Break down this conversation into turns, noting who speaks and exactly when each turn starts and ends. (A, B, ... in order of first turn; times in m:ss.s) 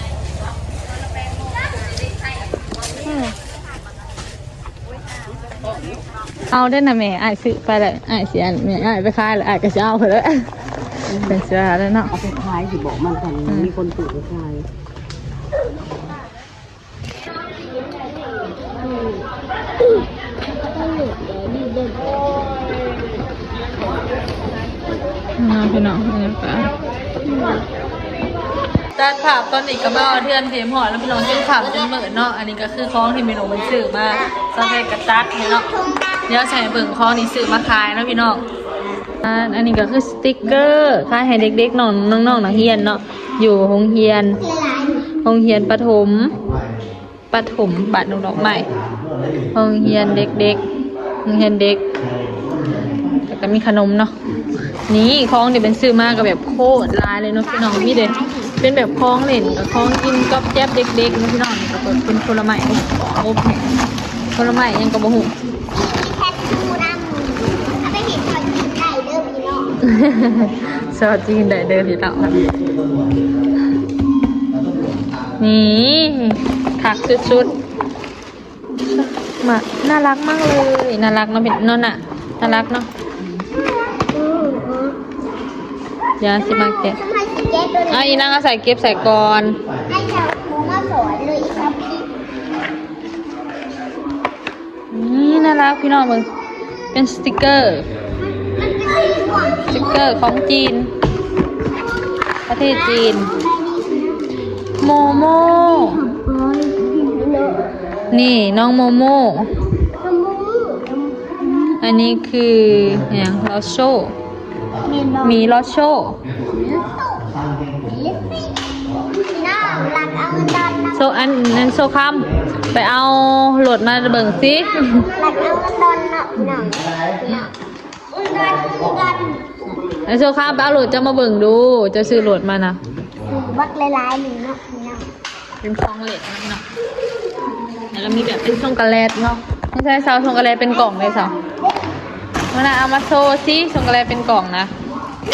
0:03.0-0:03.3 A
0:06.5-0:10.5 A
0:11.1-0:11.4 B
0:11.2-0:12.1 A
0:12.1-0:14.6 B
0:21.4-0:21.9 B
0:25.4-0:26.7 A
0:27.2-0:27.6 C
0:29.0-0:35.7 A
0:34.1-0:37.0 C
0:36.3-0:38.4 A
0:38.8-0:39.0 C
0:39.2-0:44.4 A
0:44.4-0:45.0 C
0:45.2-0:46.4 A
0:47.3-0:48.7 A
0:49.5-0:50.6 A
0:51.2-0:51.8 A
0:53.2-0:54.1 A
0:54.9-1:03.7 A
0:57.4-0:58.5 C
0:59.4-1:00.1 C
1:04.4-1:05.3 A
1:05.7-1:09.7 C
1:09.8-1:12.4 A
1:15.4-1:17.5 A
1:16.9-1:17.6 C
1:18.8-1:22.9 A
1:23.5-1:25.0 C
1:26.2-1:27.0 A
1:26.4-1:28.4 C
1:27.9-1:29.6 A
1:29.9-1:32.1 C
1:34.9-1:36.3 A
1:36.9-1:37.9 A
1:38.2-1:40.3 C
1:39.7-1:40.9 A
1:42.5-1:43.3 A
1:42.6-1:47.7 C
1:44.8-1:46.0 A
1:48.1-1:49.5 A
1:50.0-1:51.9 C
1:51.8-1:54.1 A
1:54.8-1:55.4 C
1:55.2-1:56.2 A
1:56.5-1:58.5 C
1:59.3-2:01.4 C
2:00.9-2:05.0 A
2:04.6-2:07.5 C
2:08.1-2:09.4 C
2:10.0-2:12.8 A
2:13.2-2:15.1 C
2:15.6-2:16.6 A
2:17.9-2:21.3 A
2:20.7-2:22.0 C
2:22.5-2:24.7 A